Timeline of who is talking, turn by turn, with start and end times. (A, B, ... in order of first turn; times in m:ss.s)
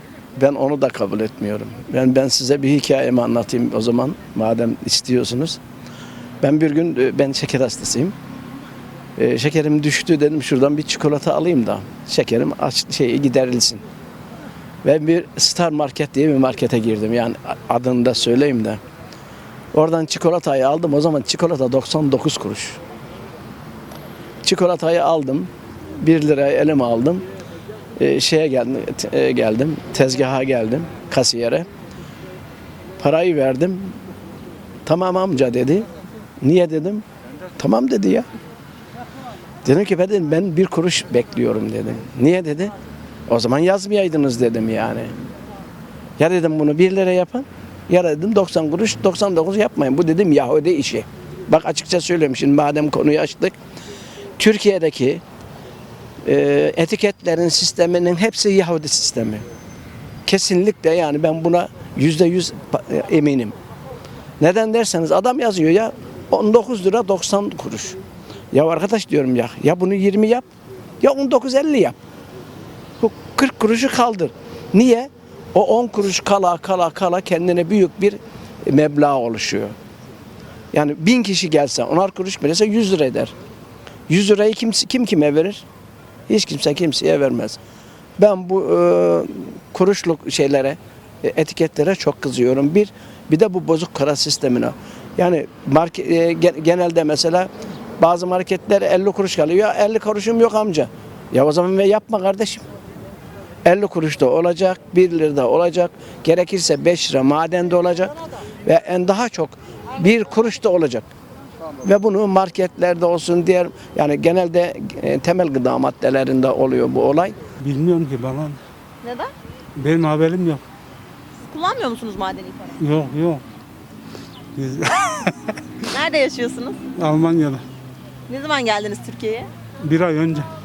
0:00.4-0:05.6 A
0:06.4-0:08.1 A
0:09.2-0:13.8 A
0:14.8-0:18.8 A
0:19.7-0:22.8 A
0:24.4-0:27.2 A
0:28.0-0:31.7 A
0:33.0-0:34.0 A
0:34.8-0:35.9 A
0:36.4-0:37.0 A
0:37.6-0:38.3 A
0:39.6-0:42.7 A
0:43.3-0:45.1 A
0:46.2-0:53.5 A
0:54.4-0:55.2 A
0:56.2-0:59.4 A
1:00.2-1:03.6 A
1:04.4-1:08.0 A
1:08.5-1:10.4 A
1:11.0-1:12.0 A
1:13.0-1:19.7 A
1:20.7-1:23.3 A
1:24.1-1:25.6 A
1:26.3-1:27.6 A
1:28.2-1:42.6 A
1:43.6-1:48.1 A
1:48.6-1:51.1 A
1:51.8-1:57.4 A
1:57.6-1:58.6 B
1:59.0-1:59.3 C
1:59.8-2:00.6 B
2:01.5-2:02.7 C
2:02.8-2:03.4 B
2:04.6-2:05.3 B
2:05.9-2:06.8 C
2:07.0-2:07.6 B
2:08.3-2:09.5 C
2:09.8-2:10.5 B